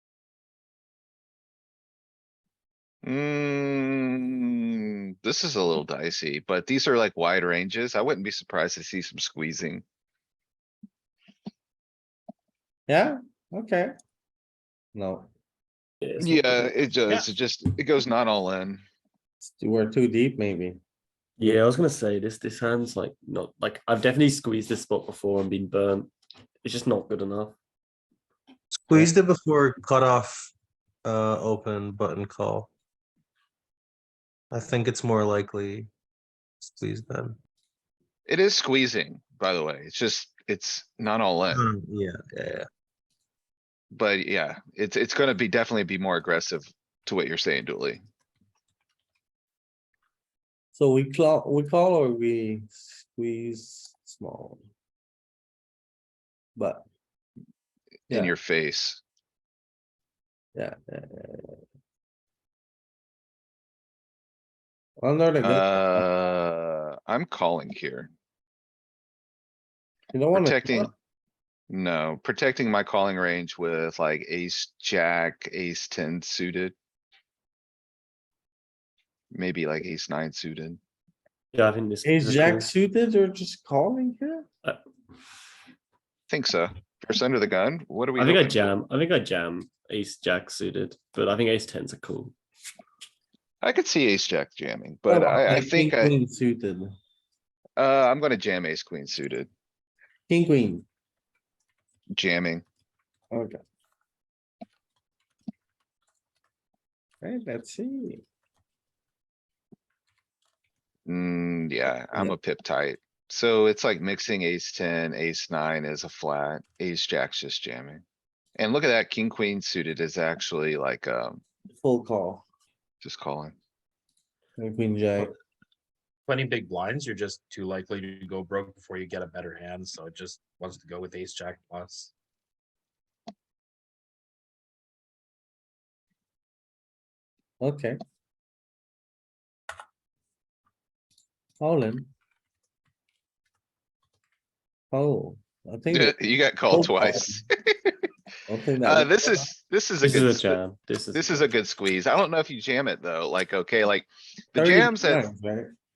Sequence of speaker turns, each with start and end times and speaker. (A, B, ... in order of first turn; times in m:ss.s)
0:03.0-0:09.8 A
0:12.9-0:13.9 B
0:15.0-0:15.3 B
0:16.0-0:16.5 C
0:16.2-0:18.8 A
0:19.4-0:20.8 B
0:21.4-0:26.1 C
0:26.6-0:27.6 C
0:28.8-0:30.5 D
0:31.0-0:32.7 D
0:34.5-0:35.9 D
0:36.6-0:37.4 D
0:38.3-0:41.6 A
0:41.5-0:42.7 D
0:43.9-0:48.0 A
0:50.8-0:54.6 B
0:56.6-0:56.8 B
0:58.1-0:59.0 A
1:00.6-1:01.6 B
1:05.0-1:06.1 B
1:05.4-1:08.1 A
1:10.1-1:10.9 B
1:10.3-1:10.9 A
1:11.7-1:16.7 A
1:19.3-1:20.8 A
1:21.5-1:22.7 C
1:22.0-1:24.5 B
1:26.3-1:28.7 A
1:28.2-1:32.3 C
1:33.6-1:36.2 A
1:35.1-1:36.9 B
1:37.8-1:39.5 A
1:40.3-1:40.8 B
1:42.1-1:42.6 A
1:43.3-1:43.6 B
1:47.2-1:48.2 B
1:51.1-1:58.0 A
1:58.6-2:01.4 A
2:01.7-2:02.4 B
2:03.0-2:03.6 A
2:04.6-2:05.3 B
2:06.3-2:12.1 E
2:17.6-2:18.0 B
2:21.6-2:22.1 B
2:24.9-2:27.4 B
2:25.9-2:28.1 A
2:28.5-2:29.1 B
2:28.8-2:30.6 A
2:30.0-2:31.3 C
2:31.1-2:35.3 A
2:34.6-2:35.7 B